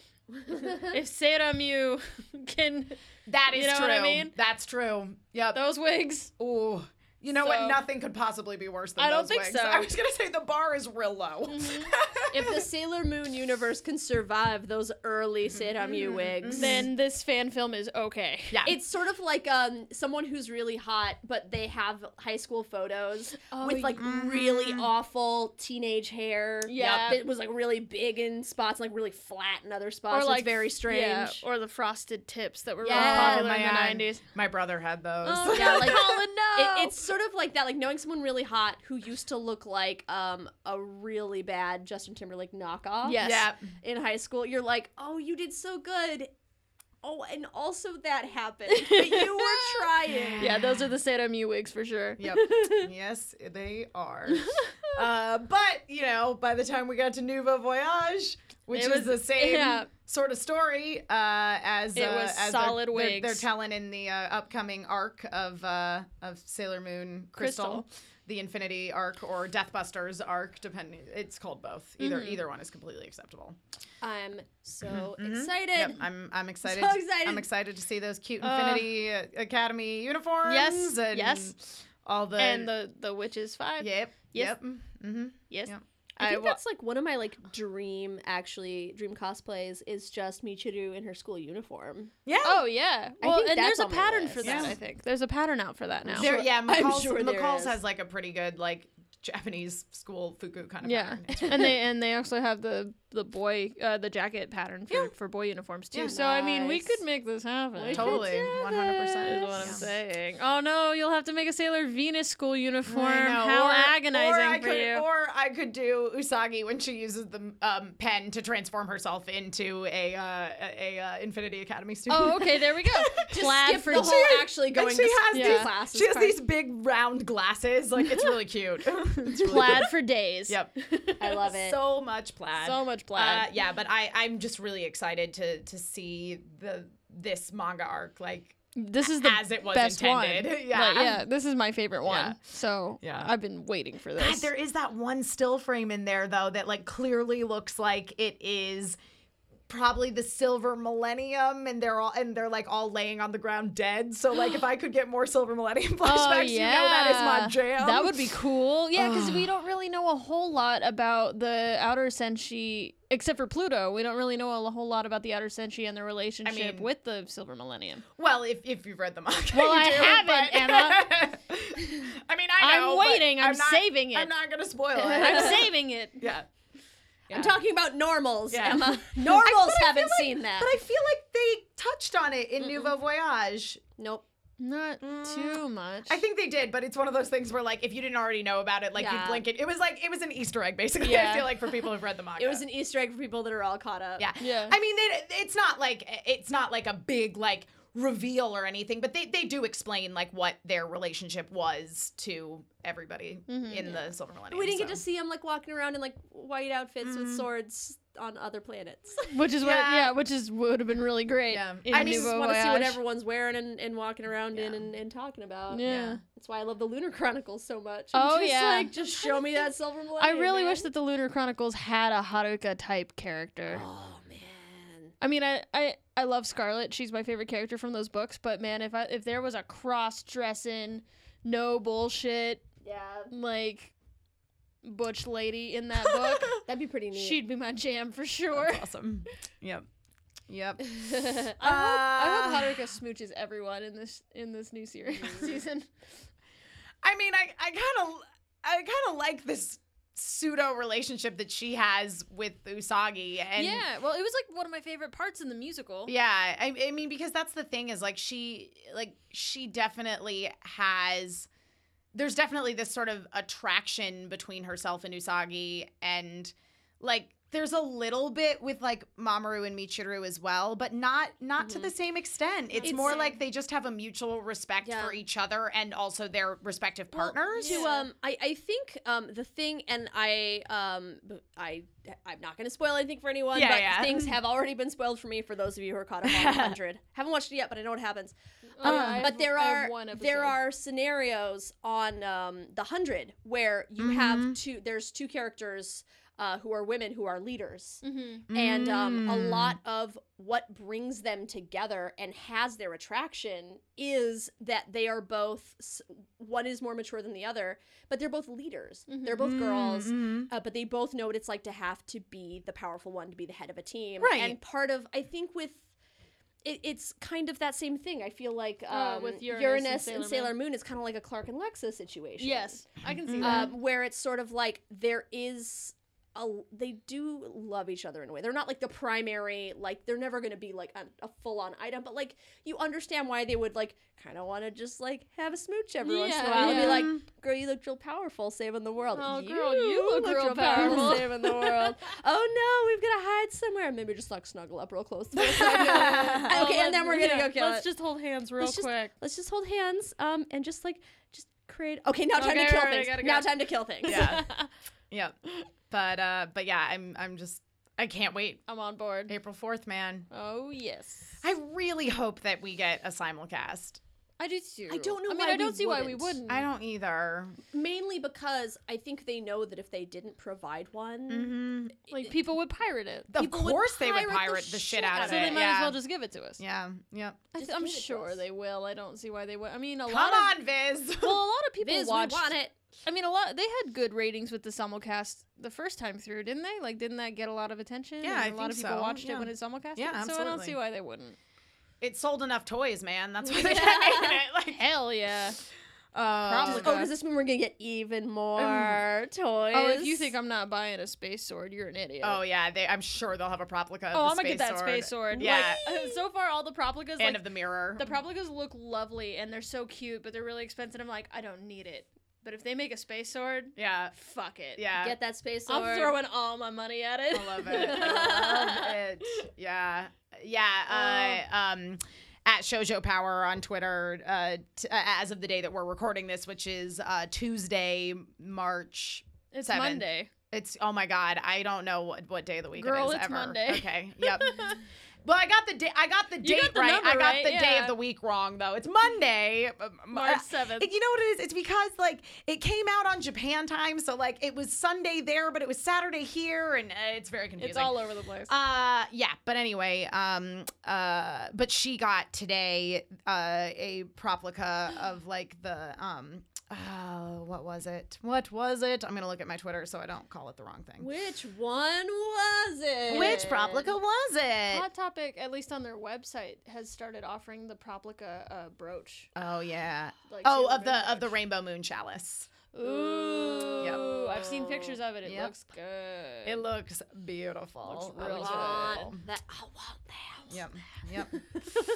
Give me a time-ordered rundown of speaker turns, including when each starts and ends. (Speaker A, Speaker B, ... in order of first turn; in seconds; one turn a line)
Speaker A: 0.4-1.0
Speaker B: 0.5-3.0
Speaker C: 3.3-5.6
Speaker B: 3.5-4.3
Speaker B: 5.5-6.3
Speaker C: 6.4-12.6
Speaker B: 7.3-7.8
Speaker B: 9.0-9.9
Speaker B: 11.5-11.9
Speaker A: 12.3-16.9
Speaker C: 15.6-16.9
Speaker B: 16.5-18.7
Speaker C: 18.5-18.8
Speaker A: 18.6-31.4
Speaker B: 23.5-24.0
Speaker C: 23.9-24.9
Speaker B: 26.7-27.2
Speaker C: 26.8-27.1
Speaker B: 30.1-34.2
Speaker A: 32.8-33.5
Speaker C: 32.9-36.2
Speaker B: 35.2-37.0
Speaker A: 35.5-46.3
Speaker B: 43.0-43.5
Speaker C: 43.2-43.7
Speaker A: 47.0-50.5
Speaker B: 48.7-52.4
Speaker C: 50.1-50.9
Speaker C: 52.2-73.6
Speaker B: 54.4-55.0
Speaker B: 58.7-59.9
Speaker B: 62.0-63.5
Speaker B: 67.4-67.8
Speaker B: 72.0-72.4
Speaker A: 74.0-76.0
Speaker C: 74.9-82.7
Speaker A: 76.6-77.5
Speaker B: 78.4-78.9
Speaker B: 80.5-81.5
Speaker B: 82.4-84.6
Speaker C: 83.8-85.8
Speaker B: 85.5-86.6
Speaker A: 86.2-92.1
Speaker C: 92.2-92.6
Speaker B: 92.4-96.3
Speaker A: 93.2-94.8
Speaker C: 94.4-94.8
Speaker A: 96.0-97.8
Speaker C: 96.2-101.8
Speaker B: 100.8-115.0
Speaker A: 106.1-107.0
Speaker A: 107.7-109.9
Speaker C: 107.9-109.9
Speaker C: 112.9-129.9
Speaker B: 122.1-124.2
Speaker A: 123.3-126.4
Speaker B: 125.3-125.7
Speaker B: 128.1-128.3
Speaker B: 129.2-131.5
Speaker A: 131.2-131.8
Speaker C: 131.5-141.2
Speaker B: 132.6-133.5
Speaker B: 138.8-144.5
Speaker C: 142.1-142.4
Speaker C: 143.0-143.3
Speaker C: 144.2-149.0
Speaker C: 149.7-158.4
Speaker B: 156.0-168.0
Speaker C: 158.9-159.5
Speaker C: 166.4-166.9
Speaker C: 168.2-175.7
Speaker B: 169.5-171.2
Speaker B: 172.0-174.3
Speaker A: 175.0-175.7
Speaker B: 175.1-176.3
Speaker C: 176.2-176.5
Speaker C: 177.3-177.6
Speaker A: 177.3-180.8
Speaker C: 178.5-183.8
Speaker A: 182.6-182.9
Speaker A: 184.0-184.2
Speaker B: 184.6-186.2
Speaker C: 185.0-192.6
Speaker A: 188.9-189.5
Speaker B: 191.0-191.8
Speaker A: 192.4-194.3
Speaker C: 194.2-205.0
Speaker B: 194.4-194.8
Speaker B: 203.5-204.0
Speaker A: 204.5-209.3
Speaker C: 207.0-207.5
Speaker B: 209.3-213.0
Speaker C: 209.6-210.1
Speaker C: 211.5-212.3
Speaker A: 211.9-220.9
Speaker B: 215.7-216.2
Speaker C: 215.9-216.2
Speaker B: 218.1-219.6
Speaker B: 220.2-223.8
Speaker A: 223.7-225.1
Speaker B: 225.2-232.7
Speaker A: 232.8-233.3
Speaker B: 233.3-233.9
Speaker B: 234.8-236.6
Speaker A: 236.6-237.4
Speaker B: 237.1-238.9
Speaker C: 238.5-239.9
Speaker C: 240.5-242.8
Speaker B: 241.3-245.9
Speaker A: 245.1-245.6
Speaker C: 247.0-253.8
Speaker B: 253.6-256.1
Speaker C: 256.1-261.5
Speaker C: 262.1-277.9
Speaker A: 271.6-271.9
Speaker B: 272.7-273.4
Speaker A: 272.8-273.4
Speaker A: 274.8-275.2
Speaker A: 277.1-315.8
Speaker B: 277.5-278.1
Speaker C: 283.5-284.4
Speaker C: 286.2-286.8
Speaker B: 288.8-290.6
Speaker C: 288.8-289.3
Speaker C: 294.0-294.6
Speaker B: 298.0-298.5
Speaker C: 298.5-299.8
Speaker B: 309.1-309.5
Speaker C: 309.4-310.5
Speaker C: 314.2-314.6
Speaker A: 316.6-322.8
Speaker B: 318.9-320.6
Speaker B: 322.4-323.8
Speaker C: 323.1-323.7
Speaker A: 323.4-347.9
Speaker B: 336.0-337.1
Speaker C: 336.6-337.2
Speaker B: 339.1-341.9
Speaker C: 340.8-341.2
Speaker C: 345.3-346.6
Speaker B: 345.6-349.1
Speaker A: 348.6-354.4
Speaker B: 352.4-354.7
Speaker C: 354.1-354.5
Speaker C: 355.1-355.4
Speaker C: 355.9-358.6
Speaker B: 358.7-359.3
Speaker C: 359.3-360.3
Speaker B: 360.3-361.4
Speaker C: 361.4-364.0
Speaker B: 364.4-366.7
Speaker A: 364.9-366.4
Speaker C: 366.5-367.6
Speaker A: 367.7-371.5
Speaker C: 371.3-372.0
Speaker B: 372.1-373.3
Speaker C: 373.3-376.0
Speaker A: 373.4-375.7
Speaker B: 375.1-376.6
Speaker C: 376.6-377.4
Speaker B: 377.5-380.6
Speaker A: 377.6-378.4
Speaker C: 380.1-381.4
Speaker B: 381.2-391.4
Speaker A: 381.8-382.7
Speaker C: 388.2-390.8
Speaker C: 392.0-394.8
Speaker A: 393.4-394.4
Speaker B: 394.7-395.6
Speaker C: 396.1-396.9
Speaker B: 396.4-397.1
Speaker A: 396.6-400.3
Speaker C: 398.6-399.0
Speaker B: 399.7-402.4
Speaker C: 402.2-406.1
Speaker B: 404.1-407.4
Speaker A: 405.3-405.6
Speaker C: 407.2-408.1
Speaker B: 408.0-414.9
Speaker C: 413.8-414.1
Speaker C: 414.8-415.2
Speaker A: 415.0-416.2
Speaker B: 415.7-419.0
Speaker C: 417.3-447.9
Speaker A: 417.7-418.6
Speaker B: 420.9-421.4
Speaker B: 429.5-430.3
Speaker B: 432.8-434.8
Speaker B: 436.4-438.0
Speaker B: 440.1-440.9
Speaker B: 447.6-448.5
Speaker C: 448.5-461.1
Speaker A: 461.0-463.9
Speaker C: 463.1-464.9
Speaker B: 463.1-463.5
Speaker B: 464.7-469.3
Speaker C: 469.4-472.5
Speaker B: 470.3-471.3
Speaker B: 472.7-476.6
Speaker A: 472.8-475.0
Speaker C: 473.8-474.4
Speaker C: 475.2-475.5
Speaker C: 476.4-479.2
Speaker B: 477.9-479.1
Speaker A: 478.3-480.6
Speaker C: 480.5-481.4